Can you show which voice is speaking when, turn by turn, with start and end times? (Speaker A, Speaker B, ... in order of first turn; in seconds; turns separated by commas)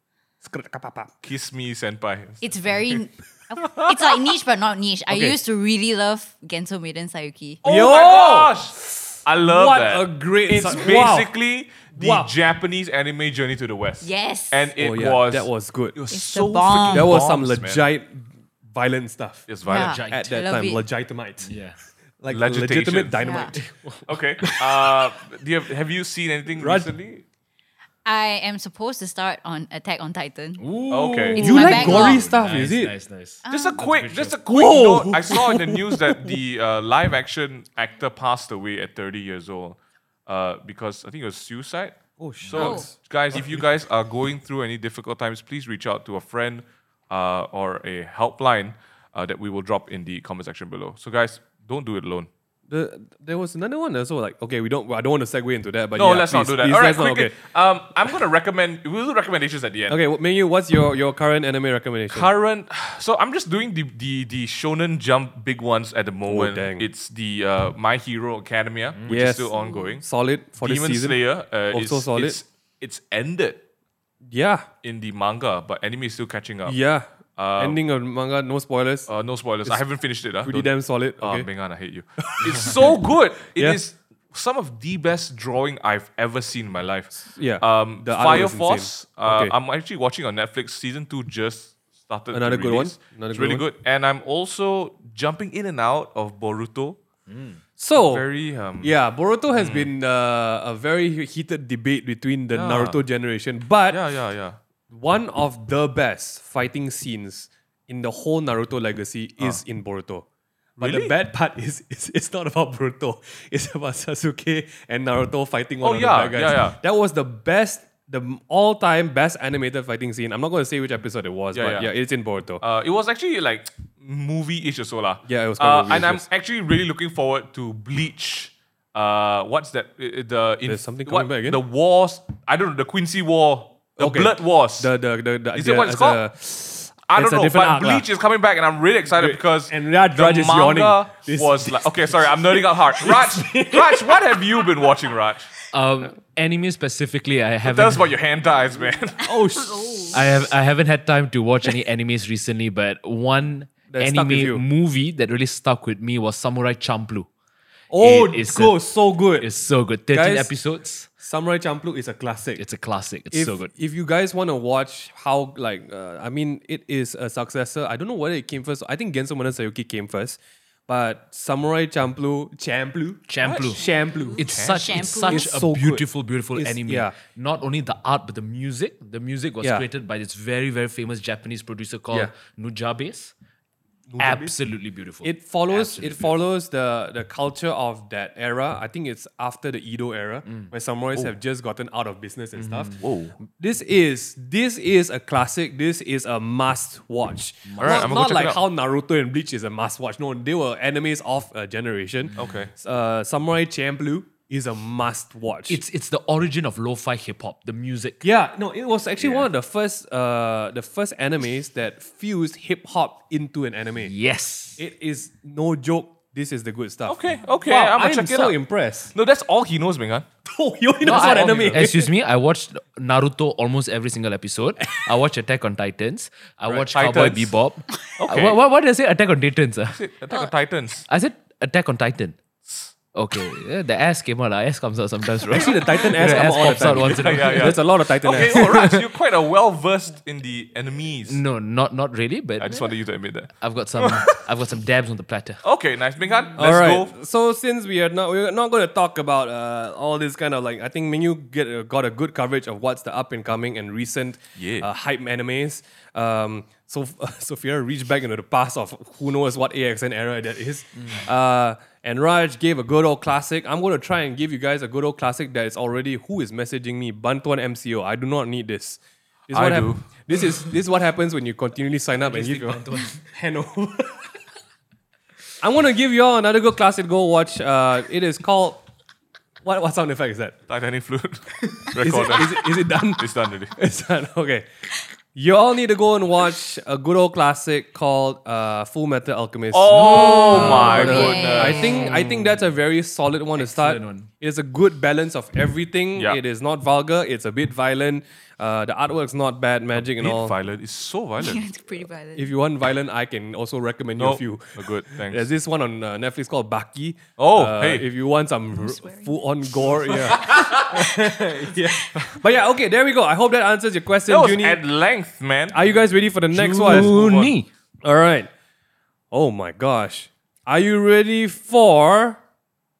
Speaker A: 0.4-1.1, Speaker B: 1.2-3.0, Speaker C: 2.4-7.6, Speaker B: 3.6-4.2, Speaker B: 7.6-17.8, Speaker A: 7.6-11.3, Speaker A: 11.9-12.3, Speaker C: 14.0-14.7, Speaker A: 14.8-16.0, Speaker C: 16.1-17.1, Speaker A: 16.9-19.5, Speaker B: 19.5-20.0, Speaker C: 19.6-20.8, Speaker D: 19.7-20.2, Speaker A: 20.1-21.5, Speaker D: 21.4-21.8, Speaker A: 22.2-23.7, Speaker B: 22.3-23.5, Speaker C: 23.2-23.6, Speaker D: 23.6-24.0, Speaker B: 24.1-27.2, Speaker A: 24.4-25.0, Speaker A: 26.6-26.9, Speaker C: 28.1-30.6, Speaker D: 30.6-34.4, Speaker B: 30.9-31.9, Speaker C: 31.4-32.2, Speaker A: 31.4-32.9, Speaker C: 33.5-33.8, Speaker B: 33.5-52.3, Speaker A: 34.4-36.4, Speaker A: 42.2-43.7, Speaker C: 42.5-42.9, Speaker A: 52.7-57.4, Speaker B: 56.0-60.0, Speaker A: 59.9-62.3, Speaker B: 62.1-70.0, Speaker A: 66.3-66.9, Speaker A: 69.1-71.2, Speaker C: 69.5-70.0, Speaker B: 70.6-73.6, Speaker A: 71.7-72.4, Speaker A: 74.2-74.7, Speaker B: 74.8-76.8, Speaker A: 76.7-79.1, Speaker B: 77.4-77.8, Speaker B: 79.1-97.0, Speaker A: 80.4-81.5, Speaker A: 82.2-83.0, Speaker A: 83.5-83.8, Speaker A: 87.3-89.5, Speaker A: 92.3-93.6, Speaker D: 97.3-97.6, Speaker A: 97.8-98.2, Speaker B: 98.0-99.0, Speaker A: 98.8-104.0, Speaker B: 99.5-99.9, Speaker B: 102.5-103.0, Speaker B: 103.9-104.6, Speaker A: 104.9-110.2, Speaker A: 110.8-122.6, Speaker B: 110.8-111.1, Speaker B: 115.8-116.8, Speaker B: 121.5-121.9, Speaker B: 122.6-134.9, Speaker A: 125.2-126.3, Speaker A: 130.7-131.6, Speaker A: 134.0-138.1, Speaker B: 135.5-136.2, Speaker B: 137.1-145.5, Speaker A: 139.1-144.9, Speaker D: 145.7-148.1, Speaker B: 147.6-149.3, Speaker A: 149.2-150.3, Speaker C: 149.3-150.2, Speaker D: 150.1-157.3, Speaker A: 153.9-154.6, Speaker A: 157.9-159.5, Speaker D: 158.0-161.1, Speaker A: 160.1-160.5, Speaker A: 161.2-162.6, Speaker D: 162.6-163.7, Speaker A: 163.3-174.5, Speaker D: 173.3-173.8, Speaker B: 173.4-173.8, Speaker C: 173.8-175.5, Speaker D: 174.4-183.3, Speaker B: 174.4-175.1, Speaker A: 175.3-177.2, Speaker A: 184.1-184.6, Speaker D: 184.2-186.3, Speaker A: 185.2-205.8, Speaker D: 192.6-193.0, Speaker B: 193.0-193.3, Speaker D: 197.7-198.2, Speaker B: 197.8-198.6, Speaker B: 202.3-202.7, Speaker D: 205.7-208.3, Speaker A: 208.2-214.1, Speaker B: 209.2-209.5, Speaker D: 214.0-214.8, Speaker A: 214.8-219.1, Speaker B: 217.1-218.6, Speaker B: 219.1-220.3, Speaker A: 220.5-222.1, Speaker D: 221.0-230.0, Speaker B: 221.1-221.9, Speaker B: 226.9-227.6, Speaker B: 228.2-228.6, Speaker B: 229.9-231.1, Speaker D: 231.1-232.4, Speaker B: 232.7-232.9, Speaker D: 233.1-237.8, Speaker B: 235.5-241.4, Speaker A: 235.5-238.9, Speaker D: 238.3-239.0, Speaker D: 241.3-242.9, Speaker B: 242.6-244.4, Speaker D: 243.6-245.6, Speaker B: 245.6-247.1, Speaker A: 246.6-274.3, Speaker B: 254.6-254.9, Speaker B: 269.5-270.1, Speaker D: 272.2-273.2, Speaker A: 275.6-278.9, Speaker A: 279.6-280.6, Speaker B: 280.7-283.8, Speaker A: 282.0-284.7, Speaker A: 285.4-300.6, Speaker B: 289.7-292.1, Speaker D: 289.9-291.3, Speaker C: 290.1-292.2, Speaker D: 292.1-292.3, Speaker D: 293.6-294.3, Speaker B: 299.9-301.6, Speaker C: 301.4-302.5, Speaker A: 302.4-314.8, Speaker B: 304.2-305.5, Speaker B: 307.4-308.1, Speaker C: 308.8-310.7, Speaker B: 310.3-310.7, Speaker C: 311.9-312.4, Speaker B: 314.3-315.8, Speaker A: 315.7-317.2, Speaker D: 316.5-317.7, Speaker B: 316.6-317.6, Speaker A: 318.0-318.5, Speaker A: 319.3-322.4